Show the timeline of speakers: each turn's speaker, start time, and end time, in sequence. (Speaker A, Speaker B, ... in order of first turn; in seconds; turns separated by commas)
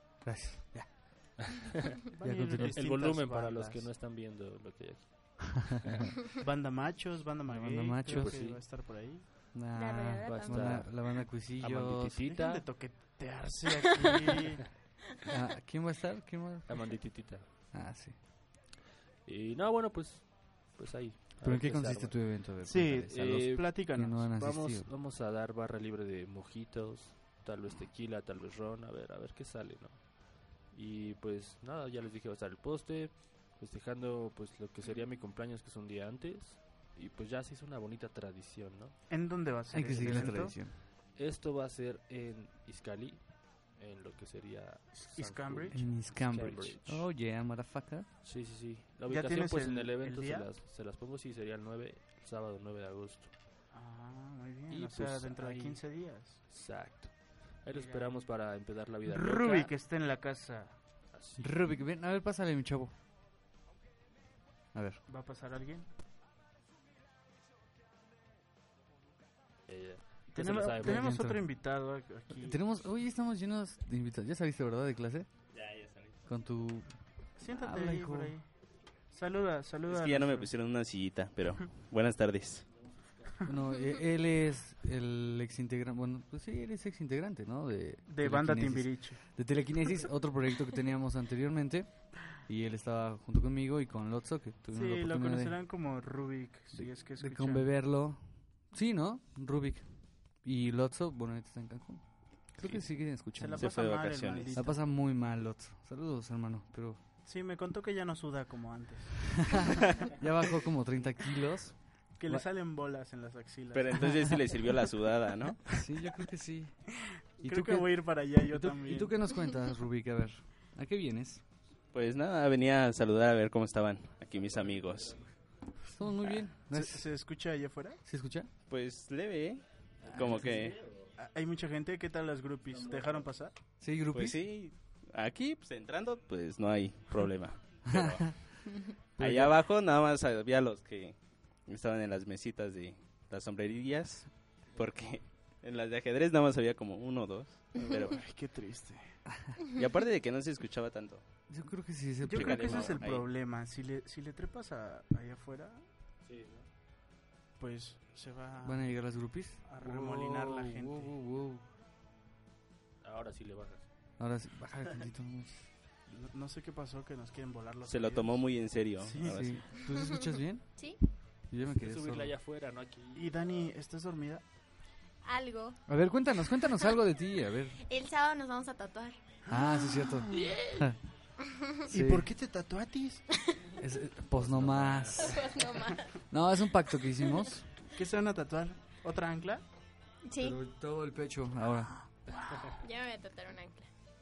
Speaker A: 0.2-1.4, Speaker B: 2.1-3.9, Speaker A: 2.2-2.8, Speaker C: 2.6-6.1, Speaker B: 6.4-9.3, Speaker A: 7.5-8.5, Speaker C: 8.1-8.6, Speaker A: 9.5-12.2, Speaker D: 9.7-10.8, Speaker C: 10.2-12.7, Speaker B: 12.3-14.7, Speaker A: 15.3-18.2, Speaker C: 16.7-17.5, Speaker C: 19.3-22.4, Speaker A: 21.4-24.9, Speaker B: 22.6-24.3, Speaker C: 23.1-39.0, Speaker B: 39.1-40.6, Speaker A: 39.7-40.8, Speaker C: 41.1-47.0, Speaker B: 45.0-45.9, Speaker A: 45.7-48.1, Speaker C: 48.2-53.3, Speaker B: 49.1-50.5, Speaker B: 53.7-56.5, Speaker C: 54.7-59.7, Speaker B: 57.7-58.3, Speaker B: 59.0-60.8, Speaker C: 61.1-61.6, Speaker A: 61.4-62.9, Speaker A: 64.7-65.0, Speaker B: 65.1-65.9, Speaker C: 69.7-71.1, Speaker B: 70.3-72.6, Speaker A: 70.8-71.7, Speaker A: 72.4-75.3, Speaker E: 75.5-76.2, Speaker A: 76.3-78.3, Speaker B: 77.4-78.5, Speaker B: 79.1-80.5, Speaker E: 79.9-82.7, Speaker A: 83.5-95.6, Speaker B: 88.1-89.2, Speaker B: 94.7-97.7, Speaker A: 96.7-103.8, Speaker B: 103.2-104.8, Speaker E: 103.6-104.6, Speaker A: 104.5-107.0, Speaker B: 107.2-109.8, Speaker A: 109.6-112.5, Speaker B: 112.2-114.7, Speaker E: 113.7-115.7, Speaker A: 115.7-121.4, Speaker B: 117.4-119.2, Speaker E: 121.9-125.2, Speaker A: 125.8-127.2, Speaker B: 126.7-128.0, Speaker A: 128.1-128.5, Speaker E: 128.7-130.8, Speaker A: 130.1-130.6, Speaker B: 131.2-133.6, Speaker A: 133.8-134.4, Speaker E: 134.1-138.4, Speaker A: 137.9-138.6, Speaker A: 139.2-139.5, Speaker E: 139.2-148.2, Speaker B: 147.7-149.2, Speaker E: 149.7-151.2, Speaker A: 151.5-153.0, Speaker B: 152.2-155.8, Speaker E: 152.3-153.3, Speaker C: 156.2-156.7, Speaker B: 157.6-161.1, Speaker A: 158.6-161.6, Speaker C: 163.0-163.9, Speaker A: 164.2-165.7, Speaker B: 166.1-169.7, Speaker E: 167.9-169.7, Speaker A: 169.2-170.8, Speaker A: 171.5-172.3, Speaker C: 171.8-173.7, Speaker B: 173.2-174.4, Speaker D: 175.2-175.8, Speaker A: 175.9-177.8, Speaker D: 177.8-179.2, Speaker B: 179.5-180.6, Speaker A: 179.5-181.0, Speaker C: 180.4-180.8, Speaker A: 181.9-182.3, Speaker B: 181.9-183.3, Speaker A: 183.8-185.5, Speaker C: 184.3-185.3, Speaker D: 185.2-186.1, Speaker A: 186.3-187.7, Speaker B: 187.9-189.6, Speaker D: 190.2-190.6, Speaker A: 190.4-192.1, Speaker D: 192.8-193.9